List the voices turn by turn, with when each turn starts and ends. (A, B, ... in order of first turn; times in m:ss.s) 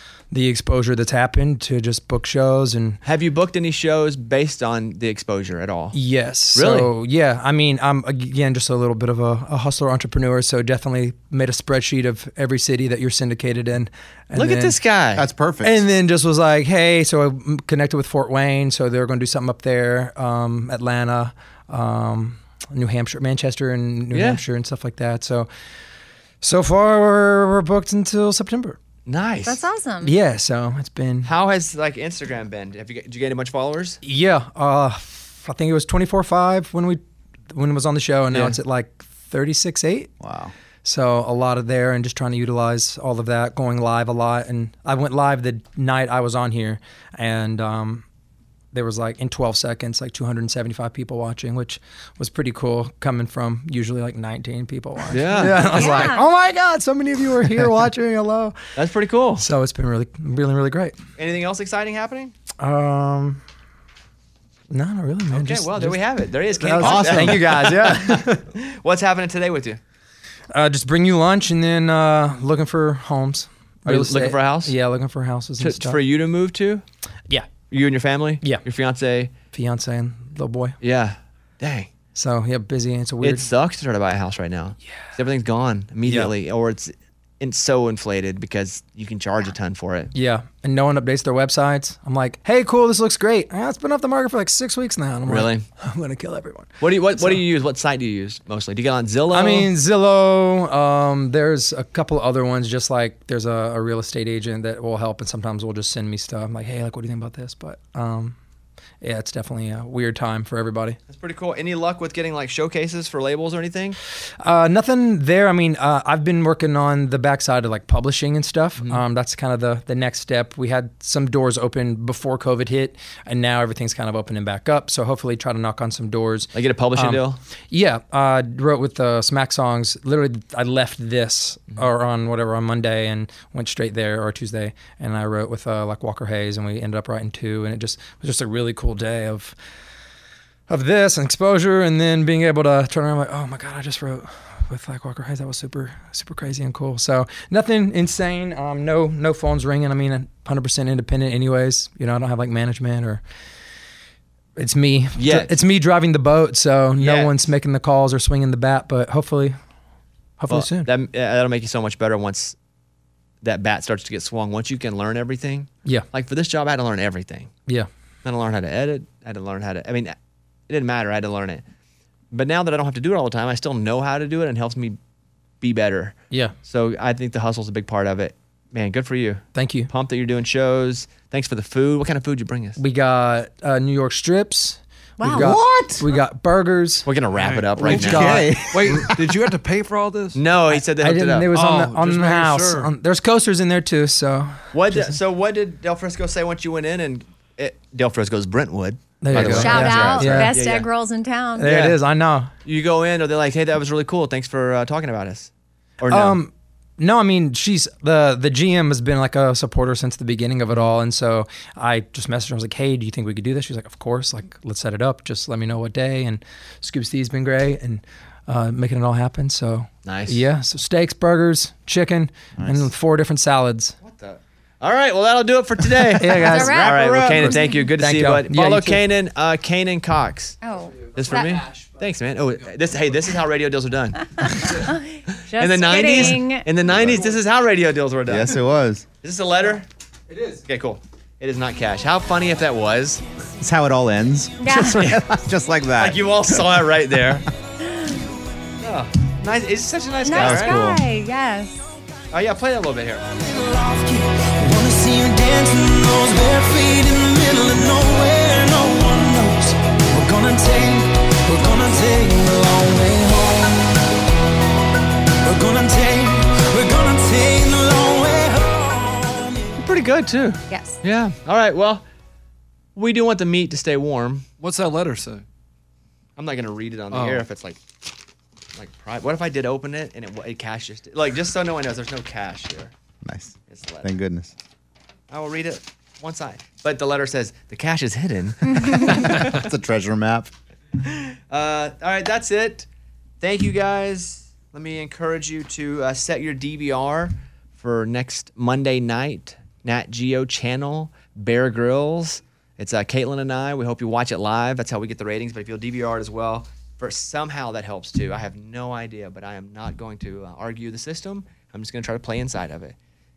0:00.3-0:03.0 A
0:03.0-0:06.0 B
0:05.9-0:14.8 A
0:06.5-0:06.9 B
0:14.4-0:15.2 B
0:15.2-0:15.8 C
0:15.6-0:25.5 A
0:24.1-0:24.4 B
0:26.4-0:28.8 A
0:29.1-0:29.6 B
0:29.5-0:30.1 D
0:30.0-0:31.3 A
0:31.2-0:34.0 B
0:34.0-0:40.1 A
0:38.3-0:38.6 B
0:40.2-0:40.5 C
0:40.8-0:48.0 A
0:48.7-0:58.6 A
0:55.1-0:56.1 B
0:55.4-0:56.2 D
0:58.8-0:59.5 B
0:59.4-1:01.0 A
1:01.2-1:02.3 B
1:02.6-1:03.4 A
1:04.7-1:08.4 A
1:05.3-1:09.8 B
1:06.8-1:07.8 C
1:10.5-1:16.0 A
1:13.9-1:14.8 B
1:15.6-1:16.8 B
1:17.3-1:17.5 A
1:17.7-1:19.3 B
1:19.5-1:20.8 A
1:20.8-1:21.9 B
1:22.2-1:23.5 A
1:23.2-1:30.1 B
1:26.0-1:26.3 A
1:30.1-1:37.4 A
1:35.2-1:35.7 B
1:36.8-1:39.7 B
1:39.3-1:48.4 A
1:49.0-1:51.0 A
1:51.1-1:54.0 B
1:54.4-2:19.6 A
1:58.8-1:59.0 B
2:06.5-2:07.4 B
2:20.7-2:33.2 A
2:34.6-2:39.6 A
2:35.2-2:35.5 B
2:37.0-2:37.3 B
2:40.4-2:40.9 A
2:40.5-2:42.6 B
2:43.4-2:47.5 B
2:48.2-2:50.2 B
2:50.7-2:51.6 B
2:52.3-2:55.0 B
2:55.6-3:02.8 B
2:56.3-2:56.6 A
2:59.5-2:59.9 A
3:02.8-3:07.1 A
3:05.2-3:05.6 D
3:05.3-3:06.1 C
3:07.1-3:08.5 B
3:07.4-3:10.4 E
3:07.8-3:08.7 A
3:07.9-3:09.4 C
3:10.4-3:11.5 B
3:10.7-3:15.2 A
3:11.5-3:12.9 E
3:14.7-3:20.9 B
3:19.2-3:20.6 A
3:19.4-3:21.7 D
3:21.6-3:22.5 A
3:21.6-3:22.0 B
3:22.6-3:26.4 B
3:26.1-3:44.0 A
3:40.0-3:40.4 B
3:42.6-3:42.9 C
3:44.0-3:50.6 B
3:46.0-3:49.0 A
3:46.4-3:47.8 D
3:50.6-3:51.6 D
3:51.2-3:54.9 B
3:54.4-3:56.7 D
3:55.5-3:58.6 B
3:56.9-3:57.3 C
3:58.3-3:59.1 C
3:59.2-3:59.9 B
4:00.6-4:03.2 B
4:03.6-4:07.2 C
4:04.6-4:05.2 D
4:06.0-4:07.5 B
4:07.9-4:08.2 D
4:08.8-4:10.8 B
4:10.2-4:11.8 D
4:10.3-4:11.0 C
4:12.3-4:13.2 B
4:13.3-4:24.1 F
4:25.4-4:29.8 F
4:29.8-4:32.0 B
4:30.7-4:31.0 D
4:33.0-4:34.4 B
4:34.6-4:35.4 E
4:36.4-4:37.8 B
4:37.1-4:37.4 E
4:38.8-4:42.9 B
4:43.2-4:44.5 C
4:43.7-4:44.1 B
4:45.3-4:49.7 B
4:48.9-4:50.5 C
4:51.0-4:52.9 B
4:53.4-5:13.0 B